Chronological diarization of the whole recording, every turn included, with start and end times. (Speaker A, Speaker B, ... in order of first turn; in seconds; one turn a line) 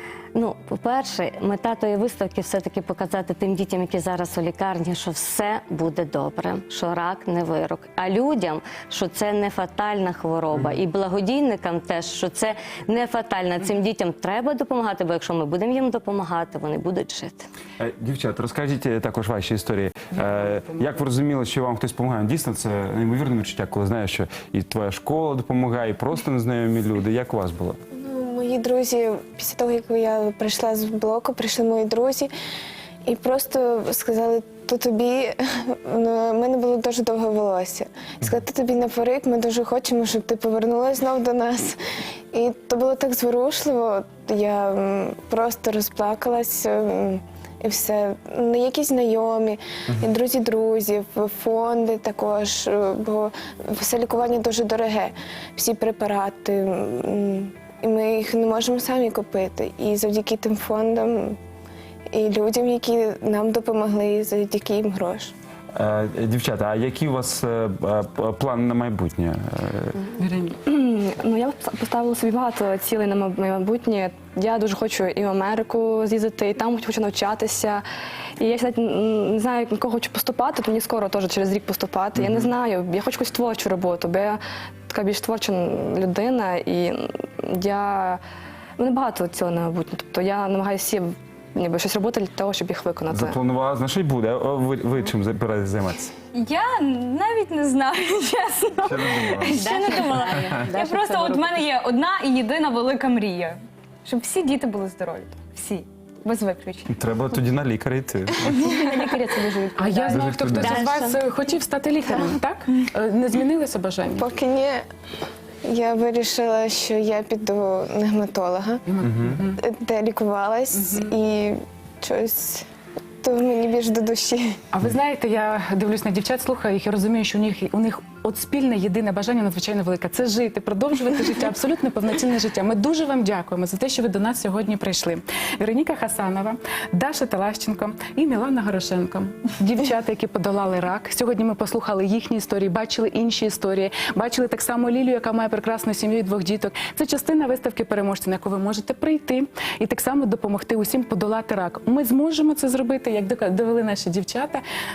Speaker A: 0.3-17.5
Speaker B: 10.5-10.8
Speaker B: 17.8-27.8
Speaker C: 20.1-21.0
Speaker D: 28.0-32.3
Speaker D: 33.0-41.8
Speaker D: 42.3-61.4
Speaker D: 62.1-65.3
Speaker B: 65.7-70.0
Speaker C: 70.2-70.5
Speaker E: 70.6-77.8
Speaker E: 78.4-88.2
Speaker B: 82.2-82.5
Speaker E: 88.8-93.4
Speaker B: 93.1-96.1
Speaker F: 96.3-106.9
Speaker B: 98.8-99.6
Speaker A: 99.6-101.6
Speaker B: 100.4-100.7
Speaker B: 106.9-108.7
Speaker A: 108.8-109.9
Speaker C: 109.8-114.3
Speaker B: 110.1-110.9
Speaker A: 110.6-111.2
Speaker D: 114.2-114.8
Speaker D: 115.6-118.8
Speaker C: 118.9-119.6
Speaker B: 119.0-119.4
Speaker D: 119.6-122.6
Speaker C: 120.7-121.1
Speaker D: 123.2-124.6
Speaker C: 124.7-154.6